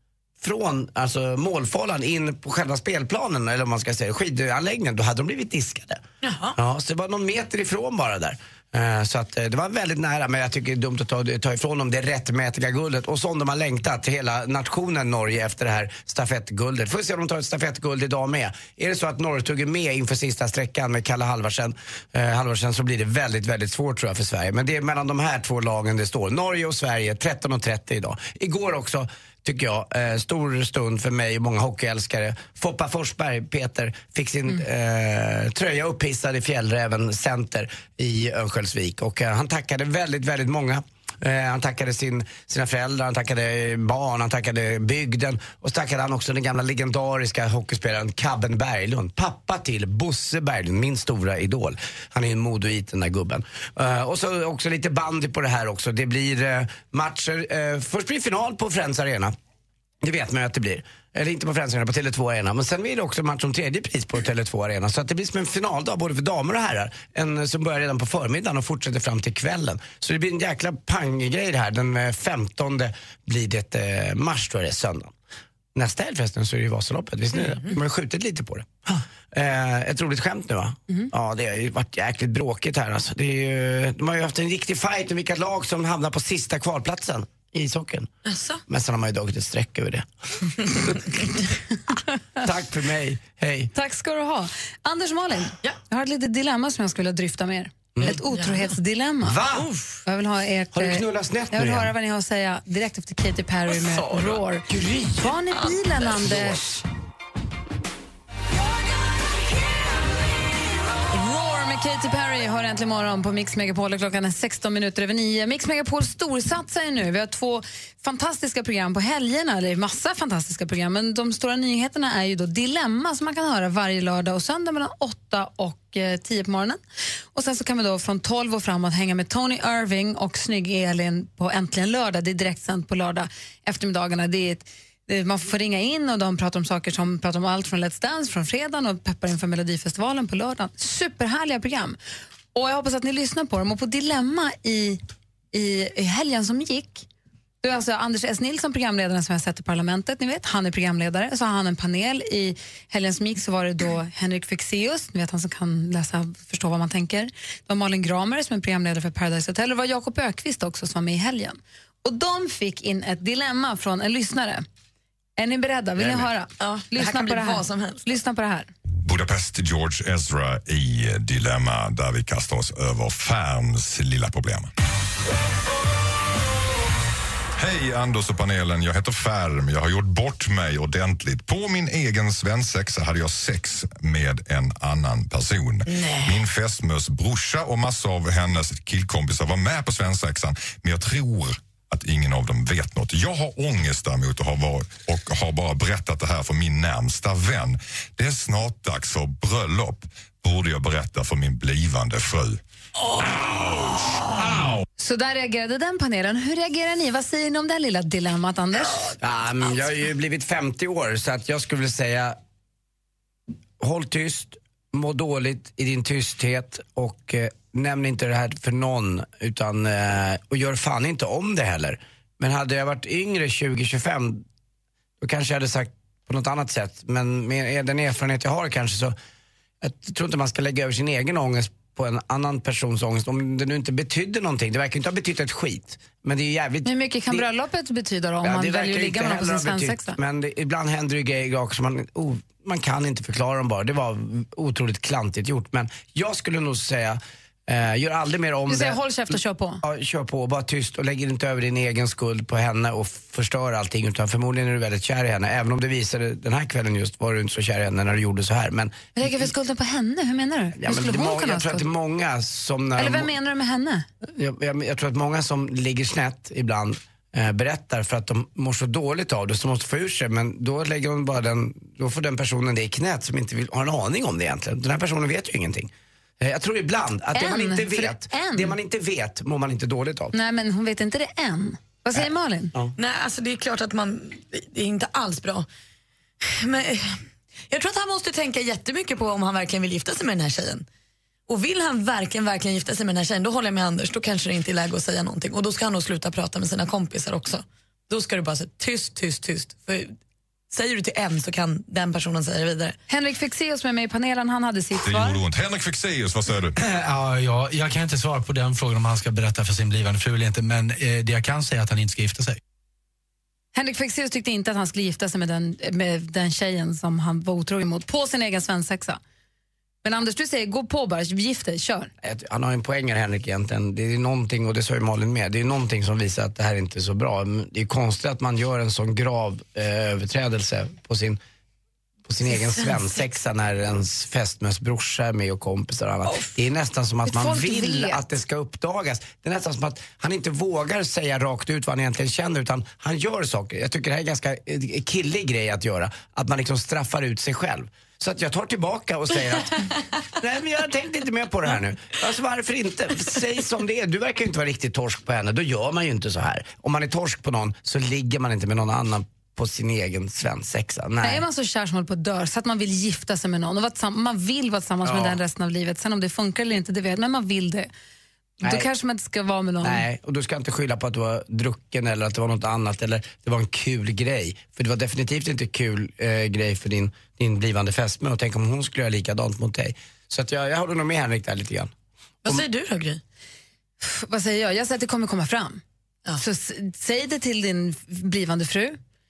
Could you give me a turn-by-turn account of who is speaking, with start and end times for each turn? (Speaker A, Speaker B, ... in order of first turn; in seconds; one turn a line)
Speaker A: 0.4-6.0
Speaker B: 6.2-6.6
Speaker A: 6.6-59.3
Speaker A: 60.0-75.1
Speaker A: 75.8-88.1
Speaker B: 88.3-88.6
Speaker A: 88.7-90.1
Speaker A: 92.4-93.7
Speaker C: 93.7-99.4
Speaker B: 98.1-98.7
Speaker A: 99.2-99.7
Speaker B: 99.5-100.0
Speaker C: 100.0-106.8
Speaker A: 100.7-101.9
Speaker B: 103.7-104.4
Speaker A: 104.7-105.1
Speaker B: 105.5-106.2
Speaker C: 111.1-126.8
Speaker C: 127.3-142.0
Speaker C: 142.5-145.0
Speaker C: 145.5-147.1
Speaker C: 147.6-164.7
Speaker C: 165.4-168.7
Speaker A: 166.0-166.3
Speaker B: 166.6-168.0
Speaker D: 169.0-174.7
Speaker D: 177.6-202.6
Speaker B: 185.9-186.4
Speaker D: 204.3-204.8
Speaker C: 205.0-209.0
Speaker A: 209.2-212.4
Speaker A: 213.8-224.4
Speaker A: 225.2-229.2
Speaker A: 229.8-237.5
Speaker C: 236.8-240.2
Speaker A: 238.4-259.5
Speaker C: 248.7-249.8
Speaker C: 259.1-261.9
Speaker A: 260.8-263.3
Speaker C: 263.0-264.1
Speaker A: 264.3-280.4
Speaker C: 277.4-278.8
Speaker C: 280.3-282.7
Speaker B: 283.0-285.7
Speaker B: 286.4-290.9
Speaker B: 291.5-300.1
Speaker B: 300.7-303.0
Speaker C: 303.1-305.4
Speaker D: 305.0-306.8
Speaker E: 306.9-312.6
Speaker C: 313.8-319.2
Speaker C: 320.0-322.1
Speaker A: 322.2-331.4
Speaker A: 332.3-349.8
Speaker B: 336.3-336.5
Speaker C: 337.3-338.2
Speaker A: 350.4-361.4
Speaker C: 361.2-367.9
Speaker A: 365.0-365.4
Speaker A: 368.6-368.9
Speaker C: 368.6-370.0
Speaker A: 369.8-381.9
Speaker B: 382.4-383.2
Speaker C: 384.0-385.8
Speaker C: 386.4-389.0